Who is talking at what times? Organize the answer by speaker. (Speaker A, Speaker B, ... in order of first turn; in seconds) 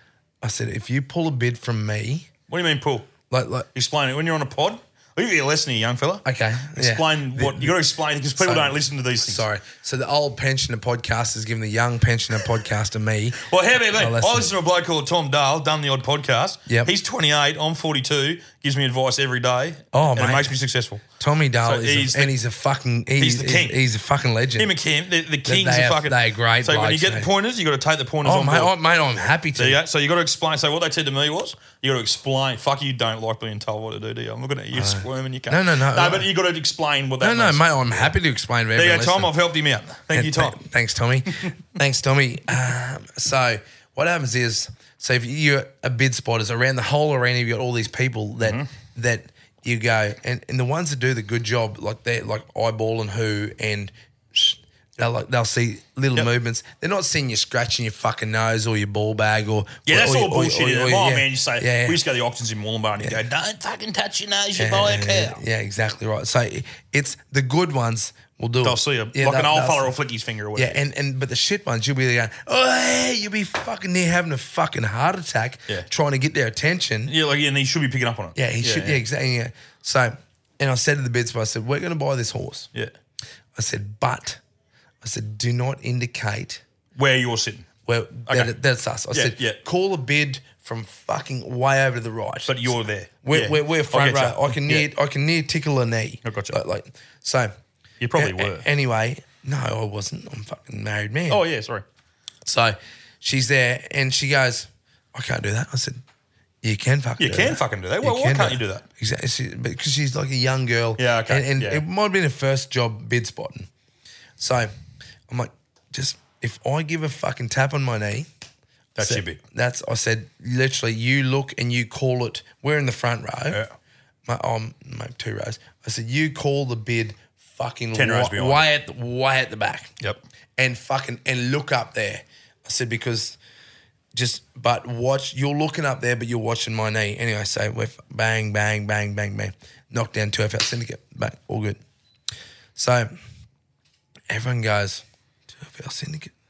Speaker A: 0.4-2.3, 3.3-3.7, 6.2-7.8, 8.4-14.5, 16.7-16.9, 19.9-20.6, 21.2-24.8, 25.4-27.3, 28.2-29.8, 34.7-36.3, 37.2-39.3, 40.1-62.0, 63.0-63.2, 64.6-69.9, 70.5-77.1, 78.3-82.7, 83.5-84.4, 85.0-86.6, 87.9-97.5, 98.1-101.4, 102.5-106.0, 106.6-113.7, 114.4-114.7, 115.3-118.3, 119.0-123.6, 124.3-129.9, 130.6-133.4, 134.1-141.8, 142.8-143.2, 144.3-146.3
Speaker B: 2.5-3.1, 3.7-9.5, 13.4-21.1, 21.6-22.4, 23.2-23.8, 24.6-28.8, 29.6-38.1, 38.8-40.6, 48.4-48.7, 59.9-65.4, 68.6-70.8, 77.1-79.0, 87.0-87.7, 88.3-88.6, 89.1-89.6, 92.5-94.9, 96.2-96.6, 98.0-98.7, 101.3-101.8, 107.2-108.9, 111.0-111.8, 119.0-119.4, 127.9-128.7